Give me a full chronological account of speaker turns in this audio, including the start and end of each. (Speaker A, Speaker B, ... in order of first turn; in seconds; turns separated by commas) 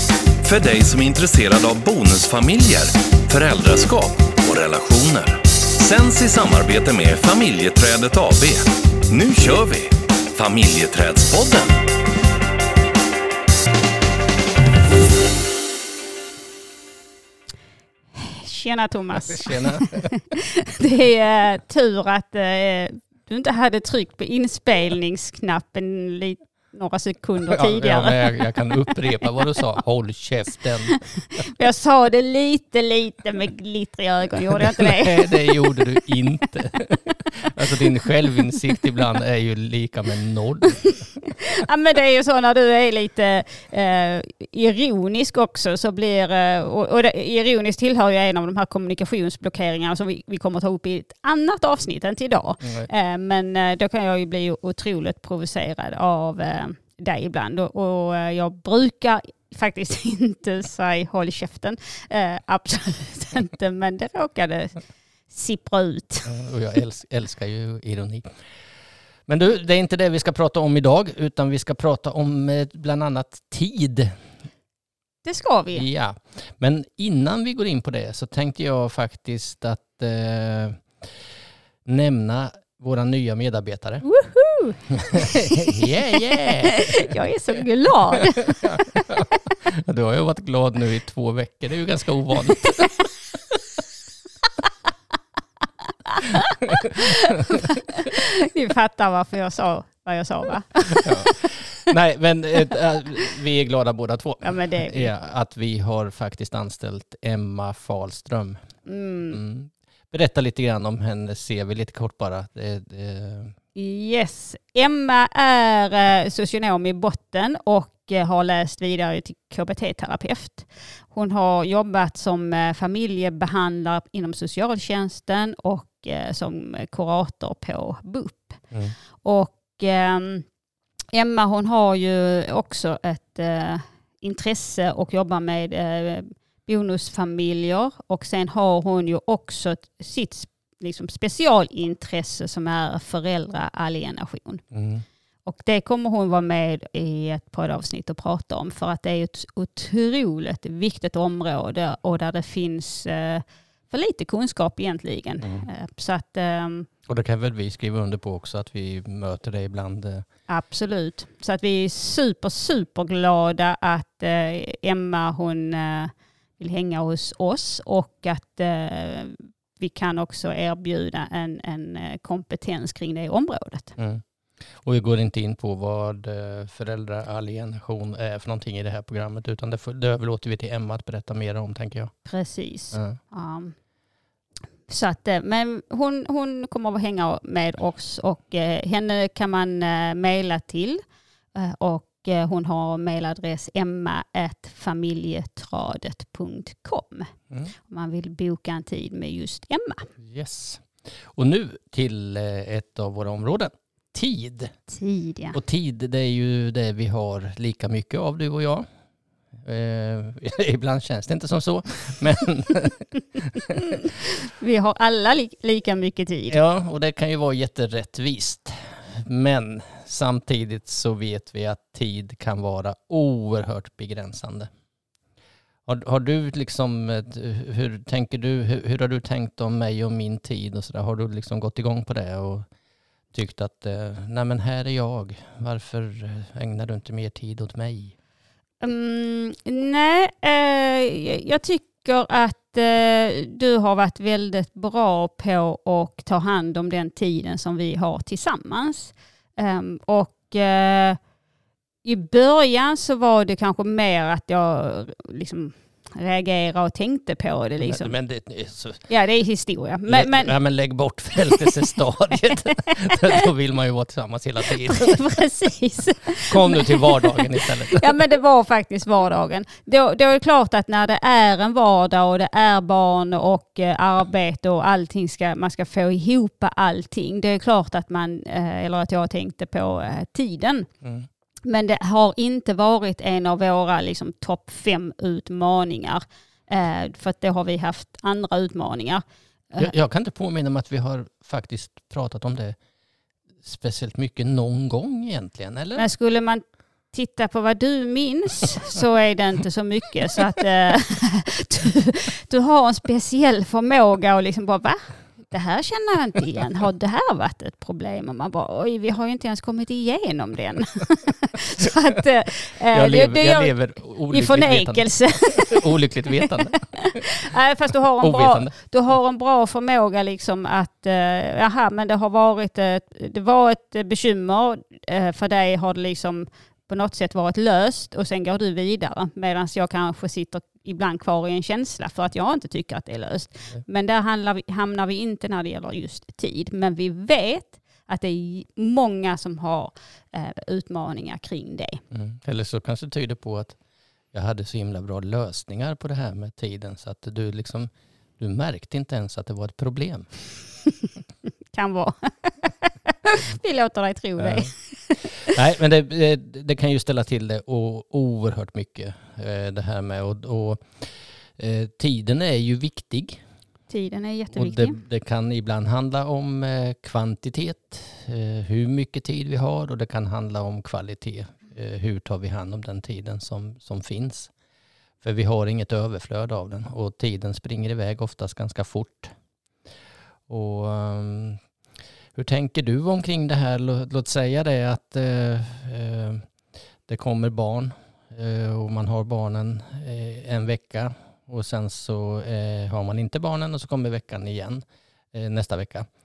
Speaker A: 0.4-11.8, Speaker B: 18.1-28.3, Speaker C: 19.1-20.1, Speaker C: 27.5-31.0, Speaker B: 30.9-35.8, Speaker C: 34.6-41.0, Speaker B: 41.2-66.3, Speaker C: 52.6-52.9, Speaker C: 66.2-68.3, Speaker C: 69.3-74.2, Speaker B: 75.2-75.8, Speaker C: 75.7-80.8, Speaker C: 81.8-84.0, Speaker B: 84.0-89.1, Speaker C: 85.3-87.1, Speaker C: 88.5-93.0, Speaker B: 96.1-101.5, Speaker C: 100.8-108.6, Speaker B: 104.4-105.1, Speaker B: 108.8-109.4, Speaker C: 109.3-113.5, Speaker B: 113.7-128.7, Speaker B: 129.2-130.4, Speaker B: 131.1-144.7, Speaker C: 144.7-145.0, Speaker B: 145.4-156.9, Speaker C: 155.4-155.7, Speaker C: 157.1-160.2, Speaker B: 160.5-173.9, Speaker C: 174.8-182.1, Speaker B: 182.2-183.7, Speaker C: 182.9-183.2, Speaker B: 184.9-191.0, Speaker B: 191.5-200.1, Speaker C: 200.2-204.7, Speaker B: 204.9-205.6, Speaker C: 205.5-208.8, Speaker C: 209.6-213.8, Speaker B: 214.4-216.6, Speaker C: 216.5-224.7, Speaker C: 225.9-232.6, Speaker C: 233.3-238.1, Speaker B: 238.8-251.2, Speaker B: 252.0-258.1, Speaker C: 257.8-259.1, Speaker B: 259.1-260.5, Speaker C: 260.1-265.3, Speaker B: 261.4-261.8, Speaker B: 264.9-280.9, Speaker C: 266.5-268.1, Speaker C: 281.0-281.3, Speaker B: 281.6-289.9, Speaker C: 289.8-292.8, Speaker C: 293.6-296.1, Speaker B: 295.9-313.7, Speaker C: 312.9-317.4, Speaker B: 314.3-342.0, Speaker C: 318.2-318.7, Speaker C: 342.1-343.8, Speaker C: 344.3-350.3, Speaker B: 351.7-355.3, Speaker C: 354.4-354.7, Speaker C: 355.4-363.4, Speaker B: 363.9-365.0, Speaker C: 364.5-374.5, Speaker C: 375.2-379.3, Speaker C: 380.5-381.6, Speaker C: 382.3-386.5, Speaker C: 387.1-396.1